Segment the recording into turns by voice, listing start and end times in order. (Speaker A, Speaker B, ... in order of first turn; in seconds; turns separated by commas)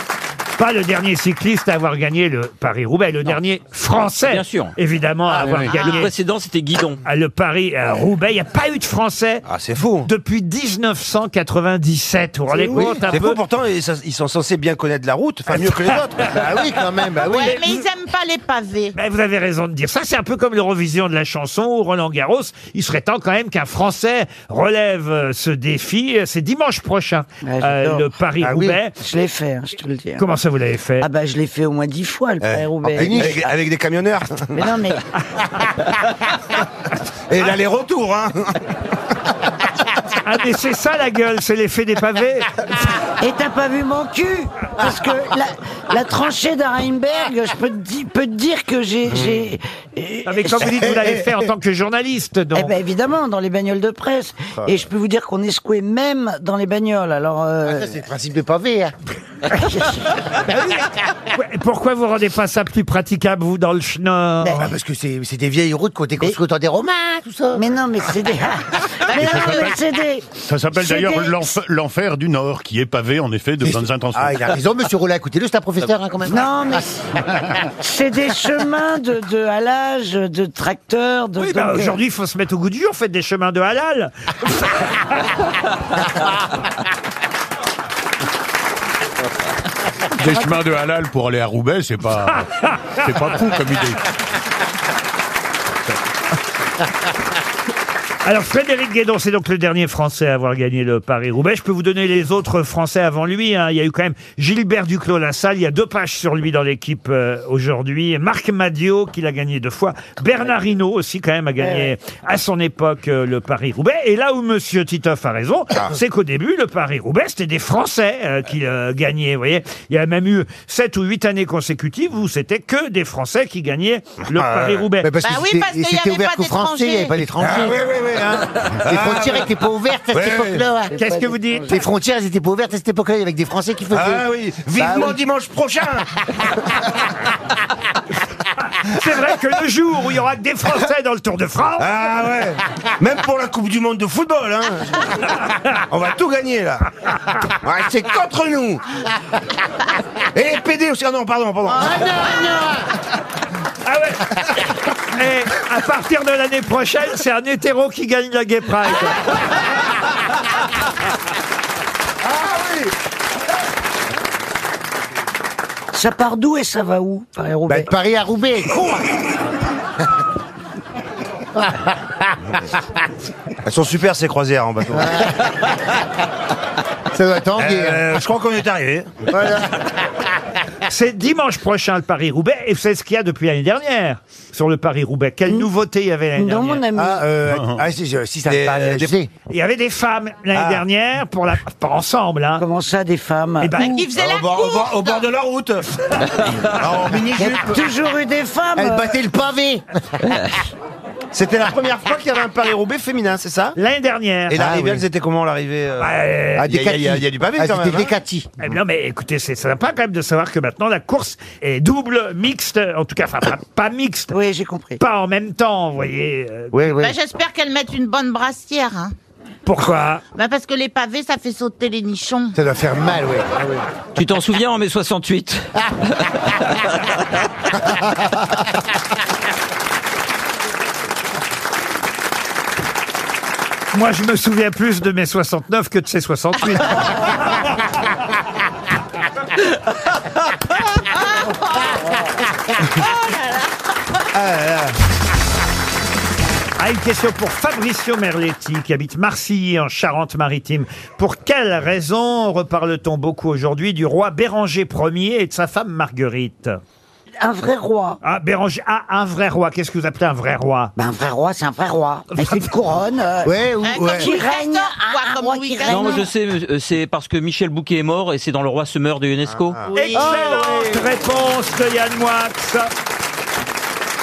Speaker A: 0.6-6.1, Speaker B: 4.2-4.8, Speaker B: 5.6-7.0, Speaker A: 7.0-9.4, Speaker C: 9.5-10.1, Speaker A: 10.0-13.4, Speaker D: 12.6-12.8, Speaker C: 12.7-16.5, Speaker E: 16.2-17.6, Speaker F: 17.2-18.9, Speaker A: 17.5-17.8, Speaker A: 18.9-28.9, Speaker D: 27.4-28.1, Speaker E: 28.4-28.8, Speaker D: 29.0-30.2, Speaker A: 30.2-31.1, Speaker D: 31.0-33.5, Speaker C: 32.4-34.6, Speaker E: 32.9-33.4, Speaker D: 34.5-35.0, Speaker C: 37.3-38.6, Speaker A: 40.2-42.6, Speaker D: 43.2-51.2, Speaker A: 50.2-52.7, Speaker D: 52.5-58.0, Speaker E: 57.7-58.9, Speaker D: 59.5-60.0, Speaker A: 60.5-64.7, Speaker E: 64.4-67.7, Speaker D: 67.5-71.5, Speaker G: 69.1-69.8, Speaker F: 69.3-69.6, Speaker G: 70.5-74.5, Speaker E: 73.6-76.9, Speaker D: 76.3-77.2, Speaker D: 77.8-82.0, Speaker A: 81.4-85.0, Speaker G: 90.1-94.0, Speaker A: 92.3-93.0, Speaker A: 98.2-125.1, Speaker D: 111.6-111.9, Speaker C: 124.3-124.9, Speaker E: 125.0-127.9, Speaker F: 125.2-127.2, Speaker C: 127.4-129.5, Speaker E: 128.4-131.0, Speaker C: 130.1-130.6, Speaker D: 130.9-131.4, Speaker A: 130.9-131.8, Speaker E: 131.7-135.2, Speaker C: 133.9-136.1, Speaker A: 138.8-141.9, Speaker C: 141.8-145.3, Speaker C: 145.9-146.9, Speaker C: 147.5-148.8, Speaker C: 150.3-152.1, Speaker E: 151.7-152.9, Speaker A: 153.8-154.5, Speaker A: 155.1-159.3, Speaker D: 165.9-167.9, Speaker E: 167.7-169.0, Speaker E: 171.6-171.9, Speaker C: 173.6-175.4, Speaker E: 177.1-178.1, Speaker C: 177.6-179.3, Speaker E: 179.3-179.8, Speaker A: 180.8-186.8, Speaker D: 186.4-187.3, Speaker E: 186.9-189.3, Speaker G: 187.5-187.8, Speaker C: 188.5-189.1, Speaker A: 189.5-192.6, Speaker C: 190.6-190.8, Speaker D: 192.6-194.0, Speaker A: 193.6-194.1, Speaker F: 193.8-195.3, Speaker C: 194.1-197.8, Speaker D: 197.4-199.2, Speaker E: 198.8-200.2, Speaker C: 201.3-203.8, Speaker A: 203.8-204.6, Speaker C: 204.5-208.1, Speaker E: 204.6-205.1, Speaker A: 206.0-206.7, Speaker E: 206.6-208.5, Speaker A: 208.6-214.4, Speaker D: 214.3-215.0, Speaker A: 215.0-216.8, Speaker E: 216.7-217.2, Speaker F: 216.9-219.1, Speaker A: 219.7-220.2, Speaker F: 220.3-222.6, Speaker E: 222.6-223.8, Speaker B: 224.2-226.8, Speaker A: 233.9-237.3, Speaker F: 241.0-242.2, Speaker F: 242.8-243.7, Speaker A: 246.8-256.8, Speaker D: 257.4-258.2, Speaker A: 258.2-260.9, Speaker D: 261.0-266.2, Speaker A: 262.4-262.6, Speaker E: 263.4-264.4, Speaker F: 263.8-266.2, Speaker B: 265.9-269.8, Speaker F: 269.9-270.9, Speaker A: 269.9-272.9